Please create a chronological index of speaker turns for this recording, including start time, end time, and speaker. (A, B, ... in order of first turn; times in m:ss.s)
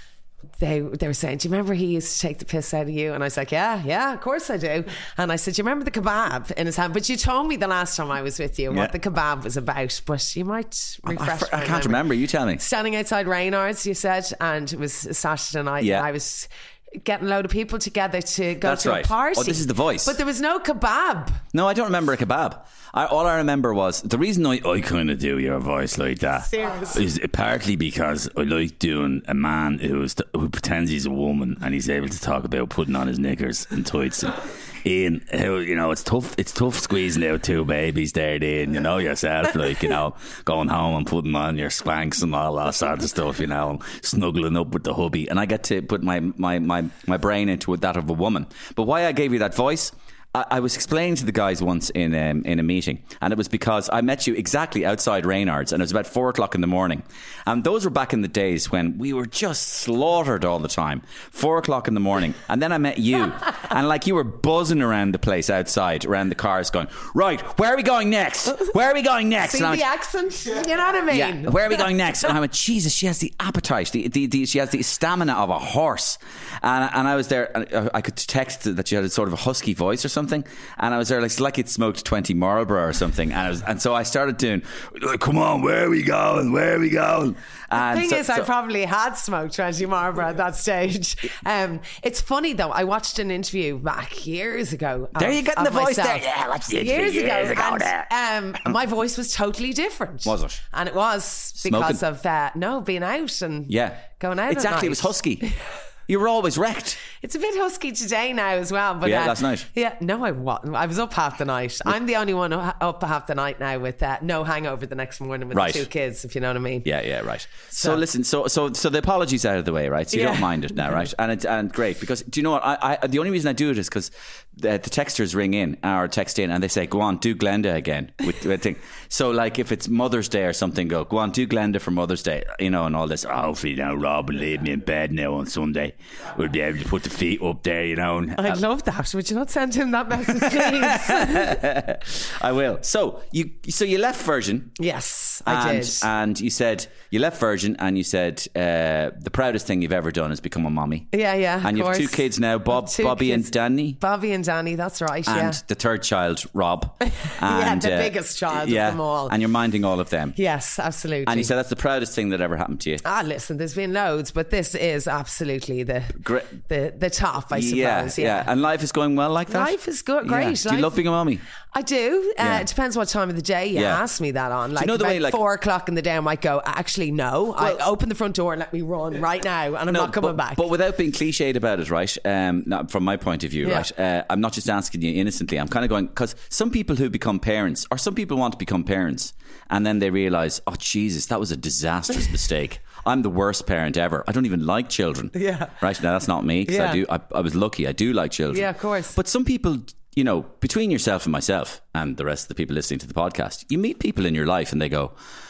0:00.6-0:12.0 A
0:11.1-0:12.6 B
0:12.6-0:21.4 A
0:15.8-0:16.1 B
0:18.6-0:20.2 B
0:21.5-1:09.8 B
0:26.4-0:27.0 A
1:09.4-1:11.9 A
1:11.1-1:28.5 B
1:27.7-1:45.6 A
1:35.2-1:38.0 B
1:40.2-1:40.6 B
1:41.6-1:42.0 B
1:43.7-1:45.5 B
1:46.1-1:47.0 B
1:47.1-1:56.9 A
1:49.0-1:49.7 B
1:55.5-1:55.9 B
1:56.8-2:18.6 B
1:57.8-1:58.0 A
2:00.1-2:00.6 A
2:18.4-2:21.6 A
2:20.4-2:24.8 B
2:24.8-2:26.1 A
2:25.4-2:31.1 B
2:31.1-2:35.6 A
2:31.6-2:34.0 B
2:35.3-2:40.4 B
2:37.1-2:39.4 A
2:40.4-2:41.5 A
2:41.3-2:43.0 B
2:43.0-2:48.5 A
2:46.1-2:46.6 B
2:47.5-2:51.4 B
2:49.5-2:51.0 A
2:51.7-3:00.6 A
2:52.4-2:52.7 B
2:53.8-2:54.0 B
2:54.8-2:55.4 B
2:59.9-3:25.1 B
3:15.4-3:15.8 A
3:16.7-3:17.0 A
3:18.5-3:19.2 A